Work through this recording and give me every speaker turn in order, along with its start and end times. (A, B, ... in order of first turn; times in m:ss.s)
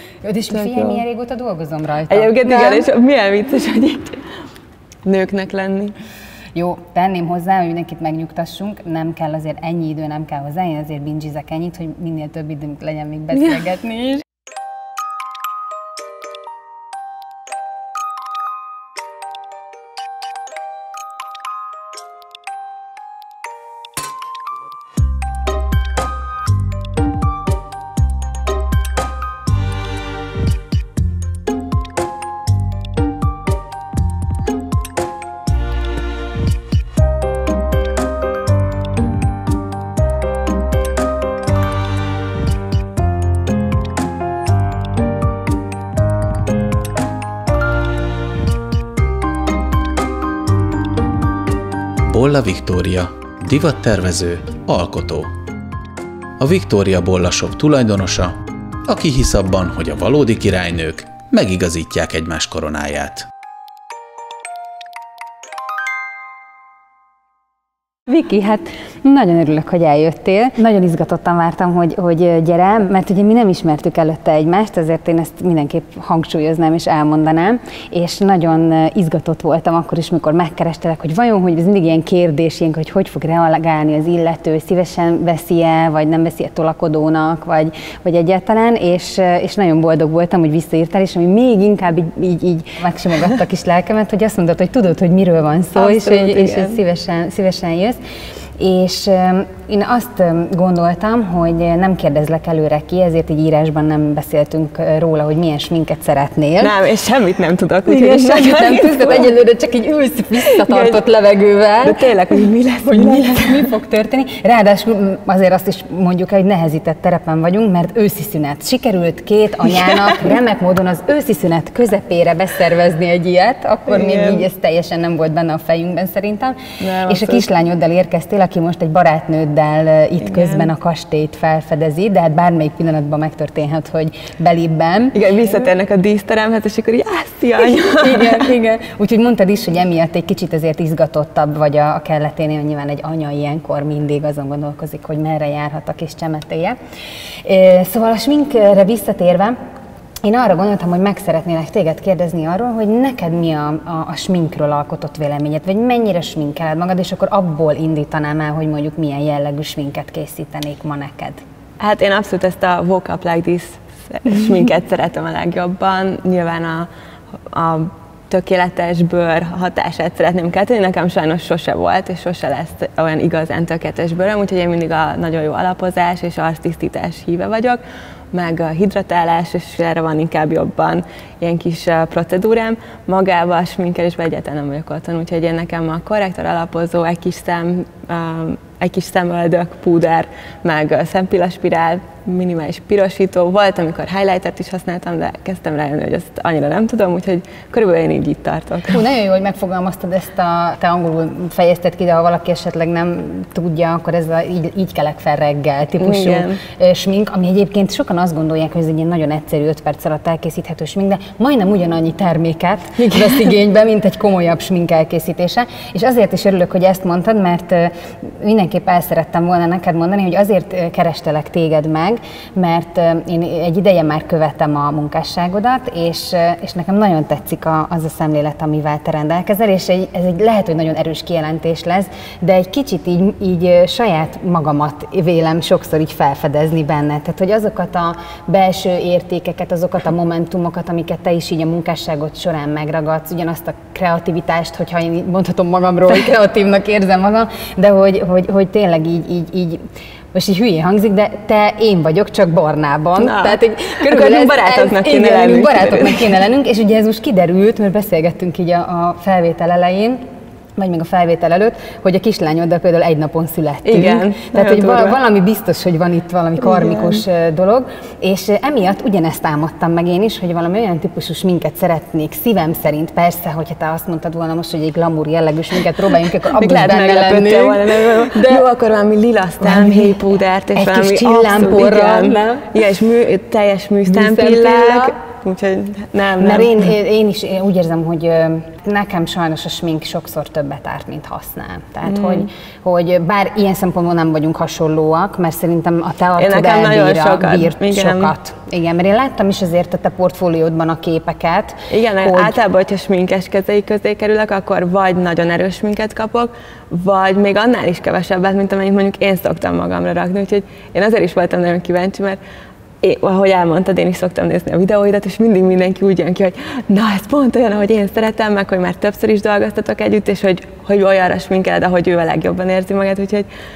0:00.2-0:02.9 A
0:00.5-0:01.0 B
0:02.1-0:04.2 B
0:05.0-0:05.9 B
0:06.5-0:14.2 A
0:52.0-0:55.3 C
0:56.4-1:03.3 C
1:08.1-1:38.0 A
1:35.7-1:36.8 B
1:38.6-1:46.7 A
1:46.6-1:49.3 B
1:47.8-1:52.1 A
1:50.6-1:51.0 B
1:51.8-1:53.7 B
1:52.8-2:15.5 A
1:59.6-2:00.3 B
2:03.9-2:04.5 B
2:06.8-2:07.4 B
2:10.2-2:10.7 B
2:15.1-2:18.5 B
2:17.6-2:26.8 A
2:27.4-2:29.6 A
2:30.2-2:41.4 A
2:41.8-2:57.8 B
2:58.3-3:19.0 B
3:18.9-4:20.2 A
3:26.0-3:26.6 B
3:33.0-3:33.5 B
4:13.2-4:16.4 B
4:20.8-4:38.7 A
4:23.8-4:25.2 B
4:26.6-4:27.2 B
4:36.4-4:46.9 B
4:39.6-4:42.8 A
4:44.0-4:45.2 A
4:46.4-5:02.6 A
4:52.0-4:52.5 B
4:56.4-4:58.3 B
5:01.9-5:12.4 B
5:13.0-5:23.5 B